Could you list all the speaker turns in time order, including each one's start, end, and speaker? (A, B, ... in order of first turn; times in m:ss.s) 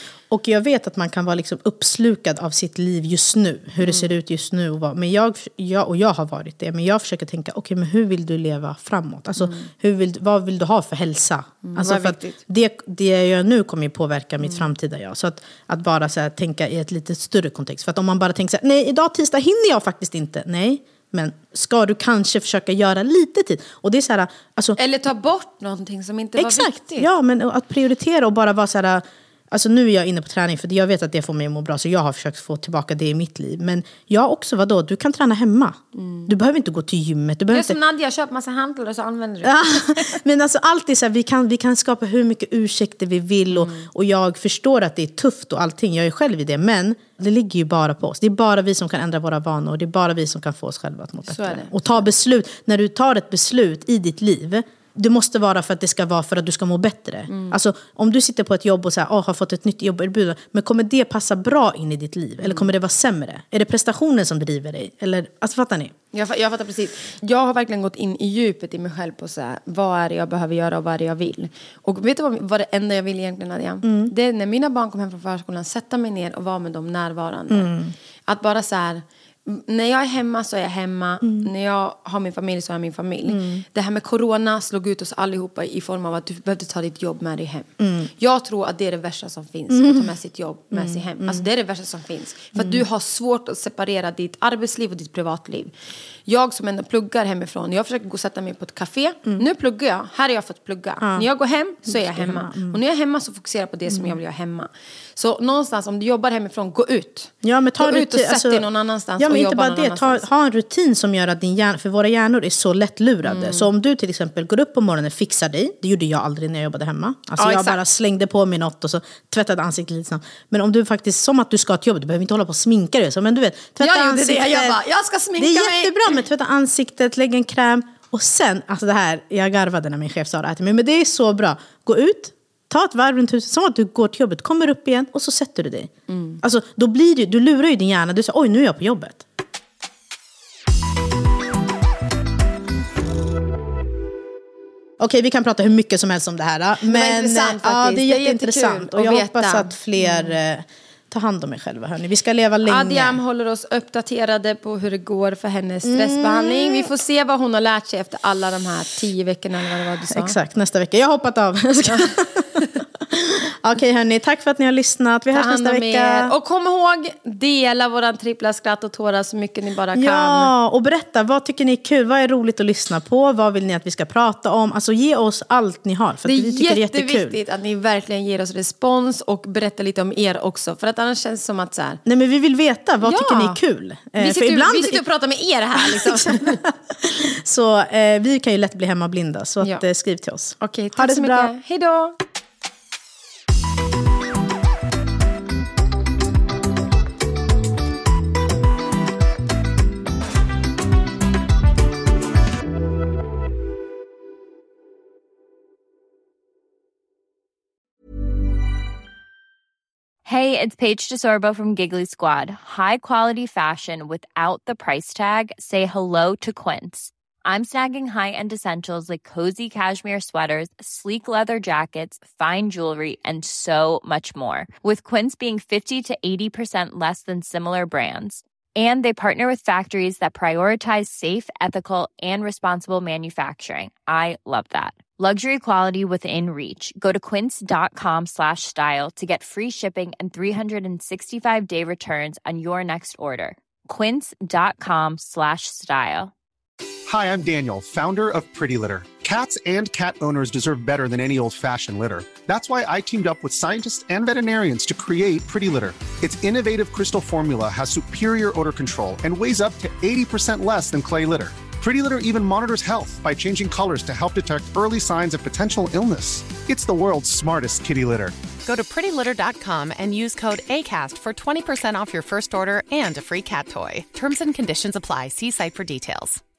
0:00.3-0:24.8 A
0:03.8-0:04.1 B
0:09.4-0:09.7 B
0:11.6-0:12.4 B
0:14.4-0:14.7 B
0:24.8-0:27.1 B
0:26.4-0:37.8 A
0:35.9-0:36.3 B
0:37.5-0:40.2 B
0:39.4-1:05.9 A
0:43.5-0:43.9 B
0:51.3-0:52.1 B
0:57.3-0:57.6 B
1:02.4-1:02.7 B
1:06.1-1:17.7 B
1:13.8-1:14.1 A
1:17.5-1:17.9 A
1:18.3-1:35.7 B
1:21.2-1:21.5 A
1:23.3-1:23.6 A
1:27.8-1:28.1 A
1:29.7-1:30.1 A
1:30.7-1:31.4 A
1:32.6-1:32.8 A
1:36.2-1:50.2 B
1:41.0-1:41.3 A
1:41.8-1:42.8 A
1:43.9-1:44.2 A
1:47.4-1:48.7 A
1:49.2-2:04.8 A
1:53.2-1:53.7 B
1:57.4-1:57.8 B
2:03.8-2:06.2 B
2:05.4-2:19.2 A
2:16.1-2:16.4 B
2:25.0-2:33.2 A
2:26.8-2:30.4 B
2:32.6-2:40.4 B
2:35.8-2:36.9 A
2:40.1-2:46.3 A
2:41.9-2:42.8 B
2:45.3-2:50.5 B
2:49.9-2:57.3 A
2:56.2-3:02.0 B
3:02.0-3:05.0 A
3:03.0-3:03.6 B
3:04.2-3:06.6 B
3:05.8-3:11.5 A
3:10.6-3:12.1 B
3:30.2-4:06.3 C
4:07.1-4:28.4 D
4:28.6-4:36.4 E